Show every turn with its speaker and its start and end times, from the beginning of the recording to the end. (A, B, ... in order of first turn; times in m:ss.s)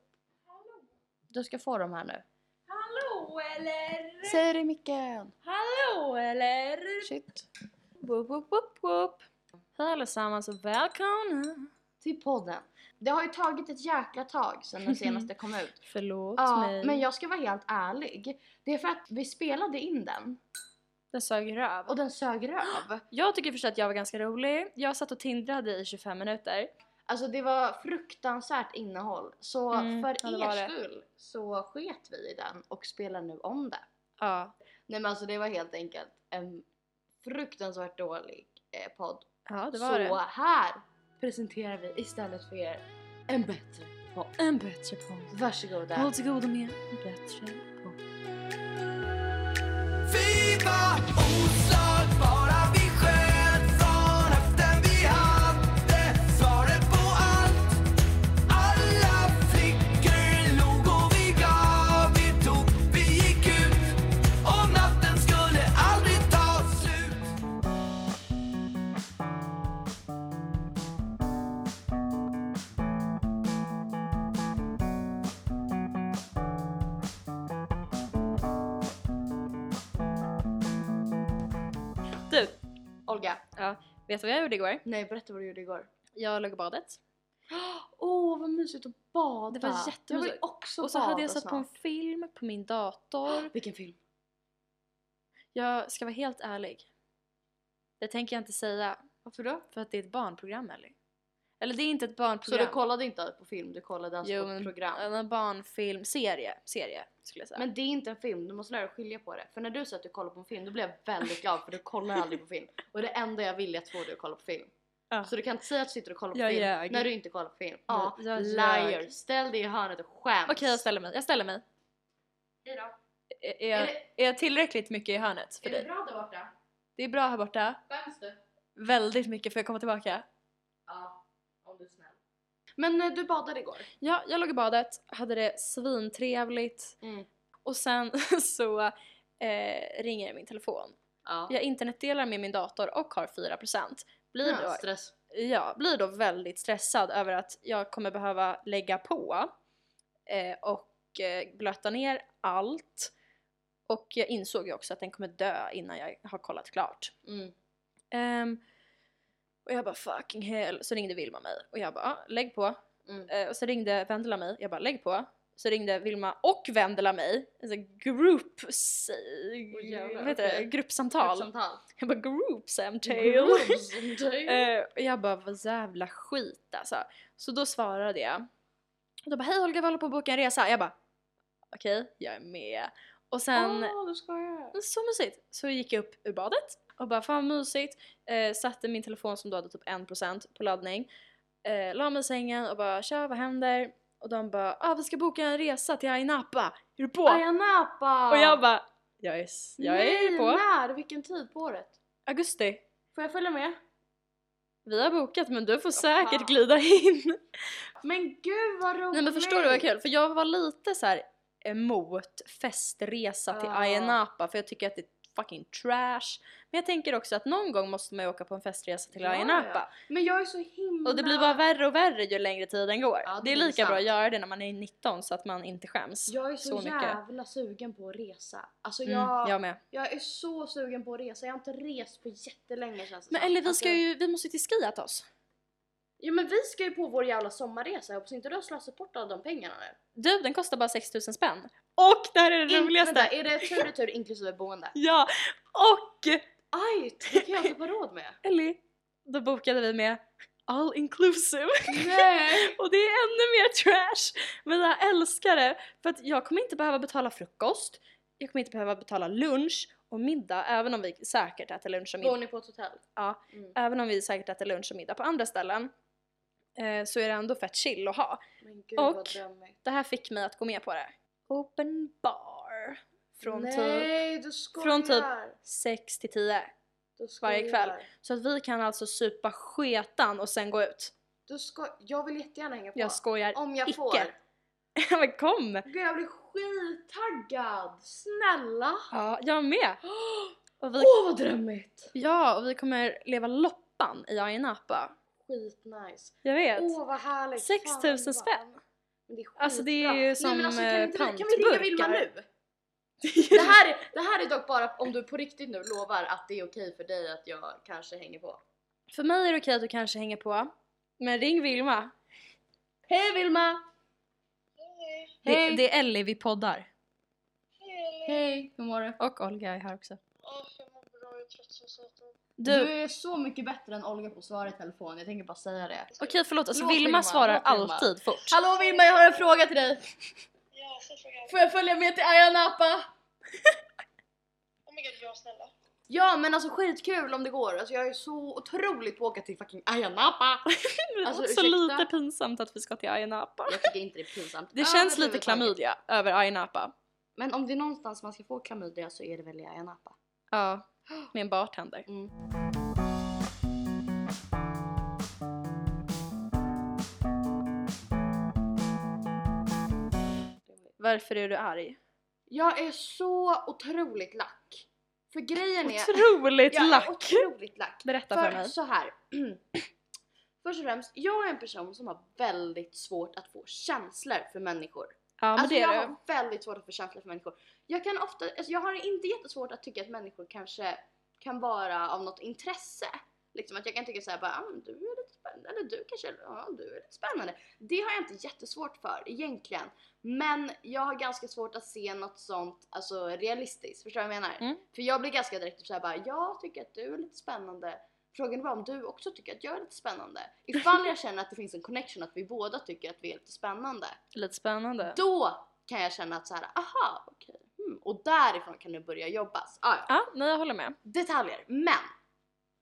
0:00.5-0:00.8 A
0:01.3-0:02.2 B
0:02.7-0:04.4 A
0:04.2-0:05.3 B
0:05.4-0:07.1 A
0:07.0-0:07.4 B
0:08.0-0:09.2 A
0:09.8-0:11.7 A
0:12.0-0:15.8 B
0:15.9-0:17.0 A
0:16.4-0:20.4 B
0:21.1-0:22.0 A
0:21.9-0:23.0 B
0:23.1-0:26.7 A
0:27.1-0:33.8 B
0:29.7-0:30.7 A
0:34.2-0:34.6 A
0:34.9-0:36.6 B
0:37.2-0:44.3 B
0:39.5-0:40.2 A
0:44.4-0:45.3 A
0:45.3-0:46.1 B
0:46.0-0:48.0 A
0:50.1-0:57.4 C
0:51.2-0:51.7 A
0:53.3-0:57.6 A
0:58.5-1:07.2 A
0:58.7-0:59.8 C
1:04.6-1:05.0 C
1:22.3-1:22.6 A
1:23.1-1:23.4 B
1:23.6-1:24.8 A
1:24.8-1:25.9 B
1:26.2-1:27.0 A
1:27.5-1:31.7 B
1:29.5-1:33.5 A
1:33.3-1:34.0 B
1:35.6-1:36.9 A
1:38.0-1:39.0 A
1:39.2-1:39.7 B
1:39.7-1:41.0 A
1:41.6-1:42.8 A
1:42.5-1:45.1 B
1:44.2-1:47.6 A
1:47.6-1:54.7 B
1:55.3-2:00.8 B
1:56.3-1:57.1 A
1:57.9-1:59.1 A
2:00.5-2:01.6 A
2:02.7-2:02.9 B
2:03.4-2:05.9 A
2:03.7-2:04.0 B
2:05.6-2:06.5 B
2:07.0-2:07.8 A
2:07.9-2:08.4 B
2:08.8-2:10.2 A
2:10.9-2:12.2 B
2:12.8-2:13.9 B
2:14.0-2:16.9 A
2:17.0-2:17.3 B
2:17.6-2:21.0 A
2:21.2-2:21.6 B
2:21.5-2:29.5 A
2:24.4-2:25.1 B
2:30.3-2:33.1 A
2:33.9-2:37.1 A
2:37.2-2:37.5 B
2:38.1-2:38.6 A
2:39.7-2:42.8 A
2:43.1-2:43.3 B
2:43.3-2:53.8 A
2:49.7-2:51.9 B
2:53.1-2:54.7 B
2:54.5-2:58.4 A
2:59.2-3:00.9 A
3:01.7-3:03.9 A
3:03.6-3:04.8 B
3:04.7-3:11.1 A
3:11.6-3:17.4 A
3:17.2-3:18.6 B
3:18.3-3:20.6 A
3:19.8-3:22.0 B
3:22.3-3:22.8 A
3:23.1-3:23.8 B
3:24.9-3:27.4 A
3:26.0-3:26.6 B
3:28.0-3:29.9 B
3:29.1-3:39.9 A
3:33.5-3:34.2 B
3:39.1-3:41.6 B
3:41.0-3:47.2 A
3:43.2-3:44.1 B
3:46.3-3:54.0 B
3:49.1-3:49.8 A
3:53.3-3:55.3 A
3:56.2-4:00.0 B
4:00.2-4:03.9 A
4:02.7-4:04.9 B
4:04.9-4:06.4 A
4:06.7-4:08.4 B
4:07.3-4:07.7 A
4:08.4-4:22.4 A
4:11.9-4:12.8 B
4:22.2-4:23.8 B
4:23.2-4:25.9 A
4:26.8-4:28.4 A
4:28.6-4:29.8 B
4:29.0-4:34.2 A
4:33.4-4:35.6 B
4:34.8-4:36.7 A
4:37.2-4:38.1 B
4:37.4-4:41.1 A
4:41.5-4:44.4 B
4:43.0-4:44.3 A
4:45.0-4:45.9 A
4:45.9-4:49.0 B
4:49.1-4:50.0 A
4:50.1-4:52.1 B
4:50.8-4:51.1 A
4:52.1-4:55.1 A
4:55.4-5:02.5 B
4:56.4-4:57.0 A
4:57.6-4:58.6 A
4:59.6-5:02.2 A
5:03.2-5:03.8 A
5:03.5-5:08.6 B
5:09.1-5:12.1 A
5:13.1-5:13.8 B
5:15.4-5:15.8 B
5:15.4-5:16.9 A
5:18.2-5:19.2 B
5:19.2-5:20.2 A
5:20.6-5:22.1 D
5:22.6-5:22.9 A
5:22.7-5:26.2 B
5:26.2-5:28.6 A
5:26.7-5:30.3 B
5:31.3-5:33.1 B
5:34.9-5:35.7 D
5:36.1-5:40.7 B
5:40.7-5:43.9 A
5:41.2-5:42.1 B
5:43.7-5:45.8 B
5:44.8-5:46.9 A
5:47.4-5:50.2 B
5:50.5-5:52.1 A
6:00.7-6:00.9 B
6:01.0-6:02.0 A
6:02.5-6:09.8 B
6:05.8-6:07.5 A
6:08.0-6:08.7 A
6:10.6-6:44.2 B
6:15.4-6:16.2 A
6:44.3-6:45.2 A
6:45.0-6:50.1 B
6:50.1-6:51.0 A
6:51.0-6:52.1 B